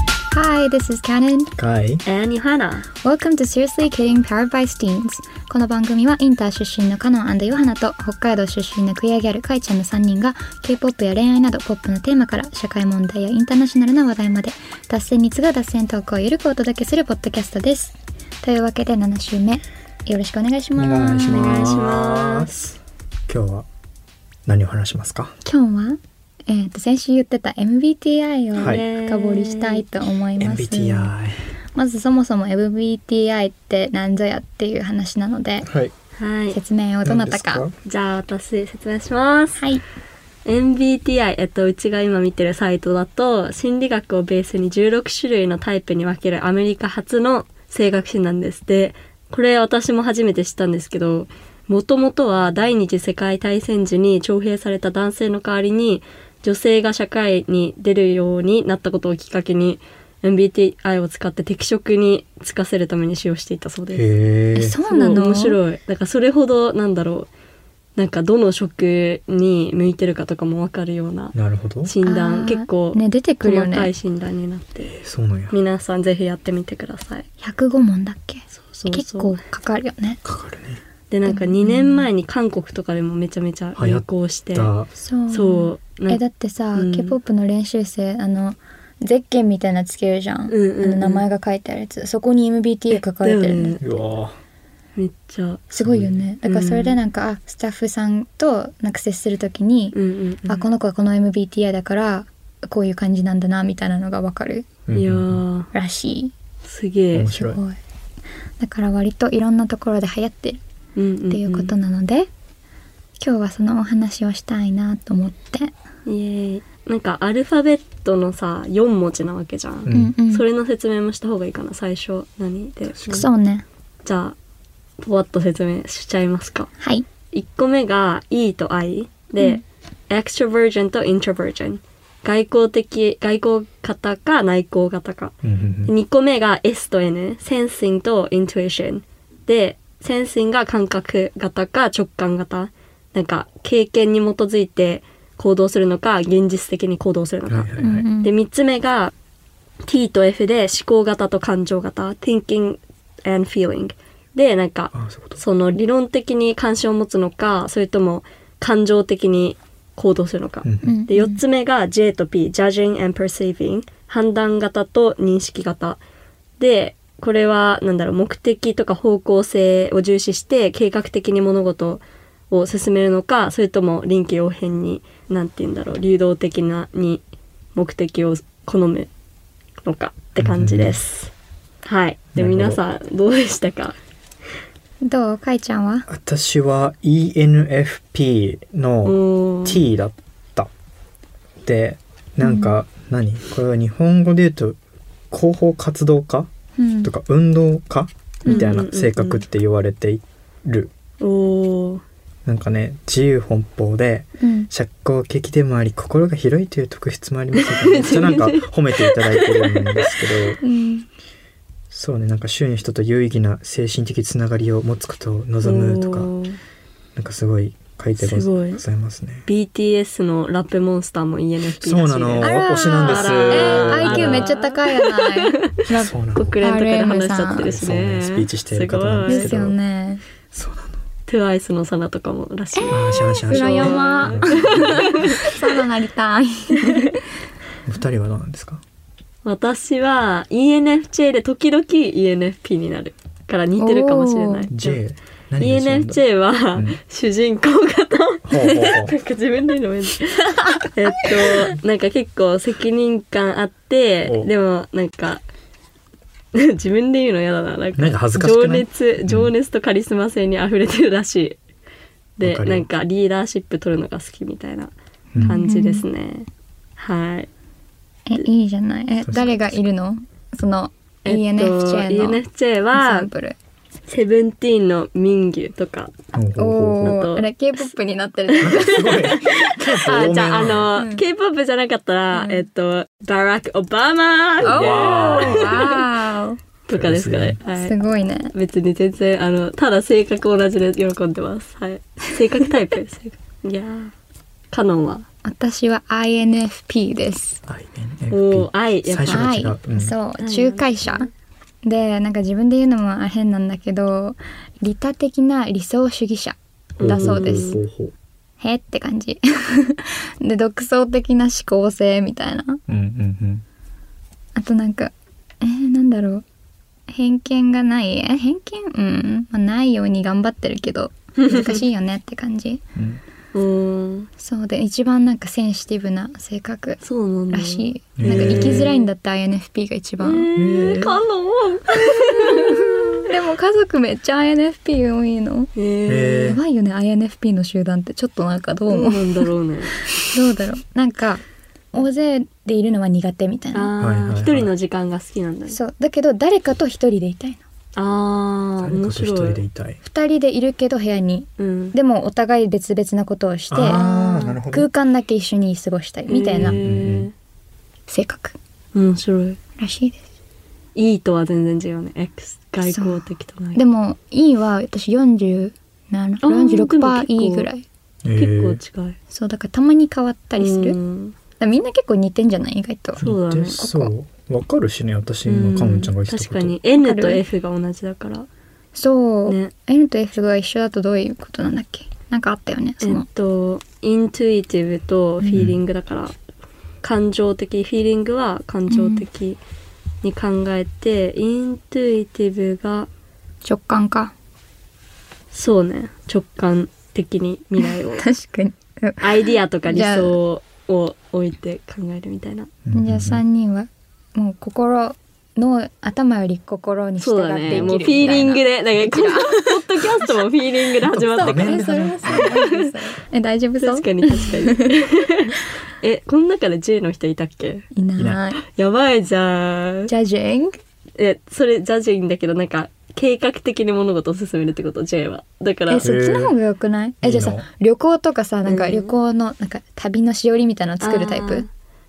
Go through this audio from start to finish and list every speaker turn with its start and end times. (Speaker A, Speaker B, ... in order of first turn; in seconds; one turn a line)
Speaker A: 0.3-1.5
Speaker B: 1.6-2.0
Speaker C: 2.0-2.9
Speaker A: 3.0-21.8
Speaker B: 20.8-22.8
Speaker C: 21.3-22.6
Speaker B: 23.3-23.6
Speaker B: 24.4-25.3
Speaker A: 25.4-31.1
Speaker B: 28.6-28.8
Speaker C: 28.6-29.8
Speaker B: 30.4-31.4
Speaker A: 31.8-35.7
Speaker B: 35.6-35.9
Speaker C: 36.1-36.6
Speaker A: 36.5-37.6
Speaker B: 37.0-37.7
Speaker C: 37.8-39.6
Speaker A: 39.6-39.8
Speaker C: 40.4-64.0
Speaker B: 63.9-64.8
Speaker A: 64.5-65.6
Speaker C: 64.9-67.3
Speaker C: 68.0-74.9
Speaker B: 71.3-71.9
Speaker A: 72.0-73.9
Speaker B: 74.8-75.5
Speaker C: 75.5-77.3
Speaker A: 77.4-80.2
Speaker C: 78.6-79.3
Speaker B: 80.2-80.8
Speaker C: 81.1-84.7
Speaker A: 81.2-82.1
Speaker B: 83.8-84.9
Speaker A: 85.0-93.8
Speaker C: 85.3-86.2
Speaker C: 86.7-87.2
Speaker C: 90.5-91.2
Speaker C: 92.9-93.8
Speaker B: 93.8-94.4
Speaker C: 95.0-95.7
Speaker A: 95.7-104.7
Speaker B: 95.8-96.2
Speaker C: 96.4-97.0
Speaker C: 99.9-100.6
Speaker B: 104.9-105.4
Speaker C: 104.9-105.7
Speaker A: 105.7-106.3
Speaker C: 106.6-107.3
Speaker B: 107.1-107.6
Speaker A: 107.2-107.8
Speaker A: 108.6-110.6
Speaker C: 111.0-111.7
Speaker A: 111.3-112.3
Speaker A: 113.2-115.7
Speaker C: 116.0-123.2
Speaker B: 119.8-120.1
Speaker A: 119.9-120.4
Speaker B: 122.9-123.3
Speaker A: 123.1-123.6
Speaker C: 124.0-124.3
Speaker C: 125.0-126.7
Speaker A: 126.8-127.0
Speaker C: 127.3-149.1
Speaker B: 135.4-135.9
Speaker B: 147.4-148.1
Speaker A: 147.8-148.3
Speaker C: 149.8-166.0
Speaker B: 154.9-155.4
Speaker B: 160.6-160.9
Speaker A: 160.8-161.4
Speaker C: 166.6-177.2
Speaker C: 177.7-179.1
Speaker C: 179.8-181.3
Speaker B: 180.4-181.0
Speaker C: 181.8-183.9
Speaker B: 182.3-182.8
Speaker A: 185.0-186.1
Speaker B: 186.1-190.7
Speaker C: 189.0-189.8
Speaker B: 191.6-194.8
Speaker A: 192.4-192.8
Speaker B: 195.3-196.5
Speaker A: 196.8-197.1
Speaker B: 197.0-200.9
Speaker A: 198.4-198.7
Speaker C: 198.4-199.4
Speaker C: 201.2-202.0
Speaker B: 202.4-210.6
Speaker A: 204.4-204.7
Speaker C: 207.6-210.4
Speaker A: 210.6-211.1
Speaker B: 211.9-216.3
Speaker C: 215.6-216.6
Speaker B: 217.2-219.4
Speaker C: 218.2-218.8
Speaker C: 219.4-229.5
Speaker B: 221.8-224.5
Speaker A: 222.4-227.7
Speaker B: 226.0-226.6
Speaker B: 227.6-229.8
Speaker A: 229.3-230.2
Speaker B: 230.5-231.0
Speaker C: 231.3-235.6
Speaker A: 232.8-237.2
Speaker B: 232.9-235.4
Speaker B: 237.8-238.8
Speaker C: 239.4-245.0
Speaker A: 243.8-244.7
Speaker B: 244.7-246.2
Speaker C: 245.6-255.4
Speaker B: 246.7-247.0
Speaker B: 248.5-249.1
Speaker A: 250.6-250.9
Speaker B: 254.2-254.5
Speaker C: 256.5-261.6
Speaker B: 257.9-259.5
Speaker C: 262.4-267.5
Speaker B: 262.4-262.9
Speaker B: 265.3-265.6
Speaker A: 265.4-266.1
Speaker A: 268.3-272.4
Speaker B: 269.2-269.8
Speaker C: 271.2-273.3
Speaker A: 272.9-273.6
Speaker C: 274.1-276.1
Speaker B: 276.3-277.1
Speaker A: 276.6-279.4
Speaker C: 277.0-277.5
Speaker C: 278.5-286.0
Speaker B: 278.6-280.9
Speaker A: 280.9-281.2
Speaker A: 282.3-282.6
Speaker B: 284.6-285.9
Speaker A: 284.6-286.6
Speaker C: 286.9-287.9
Speaker B: 286.9-287.6
Speaker A: 287.8-288.5
Speaker C: 288.5-294.1
Speaker C: 294.7-295.2
Speaker A: 295.4-297.6
Speaker B: 297.7-300.1
Speaker C: 298.3-299.5
Speaker A: 299.3-301.3
Speaker C: 300.4-301.3
Speaker A: 301.8-307.8
Speaker C: 307.0-307.8
Speaker B: 307.0-308.1
Speaker A: 308.6-312.8
Speaker B: 312.9-313.6
Speaker A: 314.5-316.4
Speaker A: 317.1-322.8
Speaker C: 321.4-321.8
Speaker B: 322.9-323.2
Speaker C: 323.5-324.3
Speaker A: 324.4-330.5
Speaker C: 327.0-329.1
Speaker B: 328.2-328.9
Speaker C: 330.2-333.3
Speaker B: 330.5-331.2
Speaker A: 332.3-335.7
Speaker C: 335.7-336.6
Speaker B: 336.1-336.6
Speaker A: 336.4-339.5
Speaker C: 338.9-340.1
Speaker A: 340.2-343.9
Speaker C: 343.7-345.8
Speaker B: 344.0-344.7
Speaker A: 345.7-347.6
Speaker C: 347.9-349.6
Speaker B: 348.8-350.0
Speaker A: 350.0-356.8
Speaker C: 351.6-351.9
Speaker B: 353.7-354.9
Speaker C: 356.3-357.3
Speaker B: 356.6-357.3
Speaker A: 358.1-358.6
Speaker C: 358.9-359.6
Speaker A: 359.8-360.2
Speaker C: 360.9-363.8
Speaker A: 362.8-367.8
Speaker C: 366.4-367.7
Speaker B: 368.2-368.8
Speaker C: 368.4-369.2
Speaker A: 369.3-371.0
Speaker C: 370.6-371.3
Speaker A: 371.6-373.2
Speaker C: 373.1-373.9
Speaker B: 373.2-376.8
Speaker C: 375.4-378.5
Speaker A: 377.0-377.4
Speaker A: 378.9-383.2
Speaker C: 379.4-379.7
Speaker C: 383.0-386.3
Speaker B: 385.5-385.8
Speaker C: 387.0-389.6
Speaker A: 388.9-389.2
Speaker C: 390.2-393.1
Speaker A: 393.6-394.3
Speaker C: 395.5-398.2
Speaker A: 397.8-400.4
Speaker C: 399.2-402.7
Speaker B: 402.8-403.4
Speaker A: 402.9-410.3
Speaker C: 407.2-412.9
Speaker B: 407.7-408.1
Speaker B: 411.1-412.6
Speaker A: 411.3-415.0
Speaker C: 413.8-417.9
Speaker A: 417.9-418.6
Speaker B: 418.2-418.4
Speaker C: 418.6-420.1
Speaker A: 420.1-420.8
Speaker C: 421.2-426.1
Speaker A: 425.9-431.6
Speaker B: 426.0-426.5
Speaker B: 427.2-427.6
Speaker C: 428.6-429.1
Speaker C: 431.0-431.7